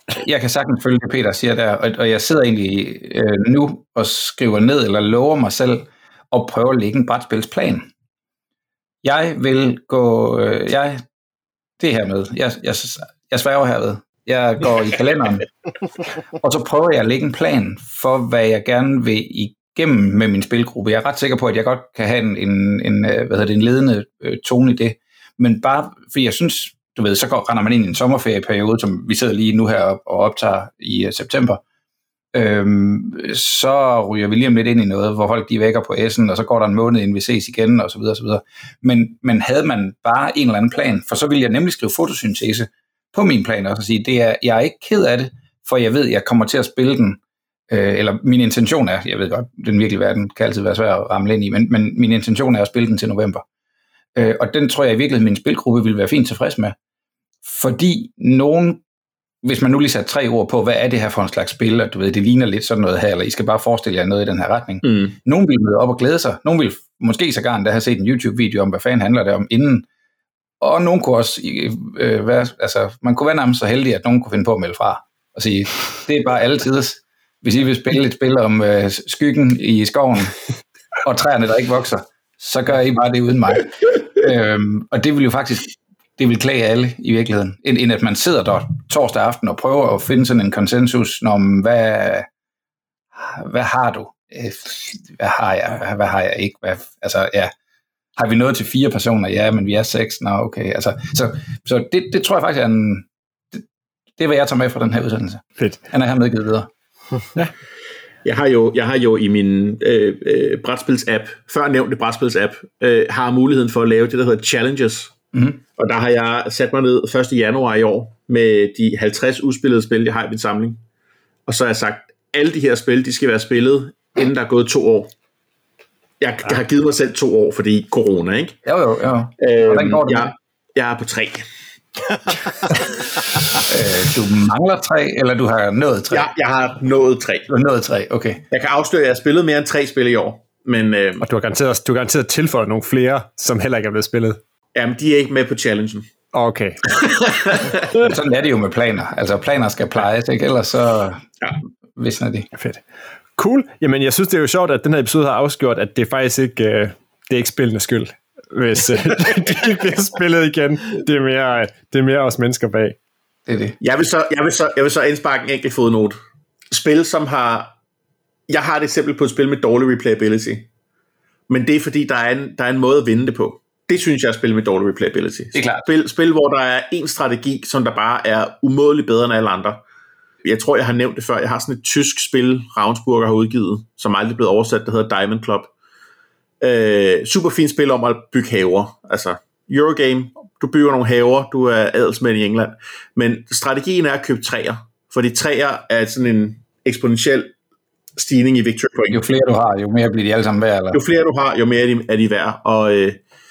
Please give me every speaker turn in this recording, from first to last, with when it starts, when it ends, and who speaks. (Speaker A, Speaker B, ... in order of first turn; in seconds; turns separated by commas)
Speaker A: 0.2-7.9, Speaker A: 9.0-11.0, Speaker A: 11.8-15.5, Speaker A: 16.4-31.6, Speaker A: 32.3-47.2, Speaker A: 47.7-53.4, Speaker A: 54.1-56.8, Speaker A: 57.5-58.8, Speaker A: 59.4-69.9, Speaker B: 64.8-65.1, Speaker A: 70.6-80.3, Speaker A: 81.0-92.3, Speaker A: 93.2-97.5, Speaker A: 98.2-103.6, Speaker A: 104.2-106.7, Speaker B: 108.2-115.1, Speaker A: 115.3-115.6, Speaker B: 115.8-120.8, Speaker B: 121.5-125.1, Speaker B: 126.2-128.6, Speaker A: 128.7-130.3, Speaker B: 129.4-131.4, Speaker A: 133.7-136.3, Speaker B: 136.1-137.5, Speaker A: 137.5-138.4, Speaker B: 138.5-141.2, Speaker C: 141.2-144.4, Speaker B: 144.8-146.1, Speaker C: 146.3-146.8, Speaker B: 146.9-148.0, Speaker A: 147.9-151.3, Speaker A: 152.0-152.5, Speaker C: 152.5-152.8, Speaker C: 153.4-163.0, Speaker A: 163.5-163.8, Speaker B: 163.8-166.2, Speaker B: 166.7-167.7, Speaker B: 168.5-170.7, Speaker B: 171.5-179.8, Speaker A: 175.5-175.8, Speaker B: 180.4-185.7, Speaker B: 186.6-197.5, Speaker B: 198.2-199.2, Speaker A: 199.1-201.0, Speaker B: 200.9-203.2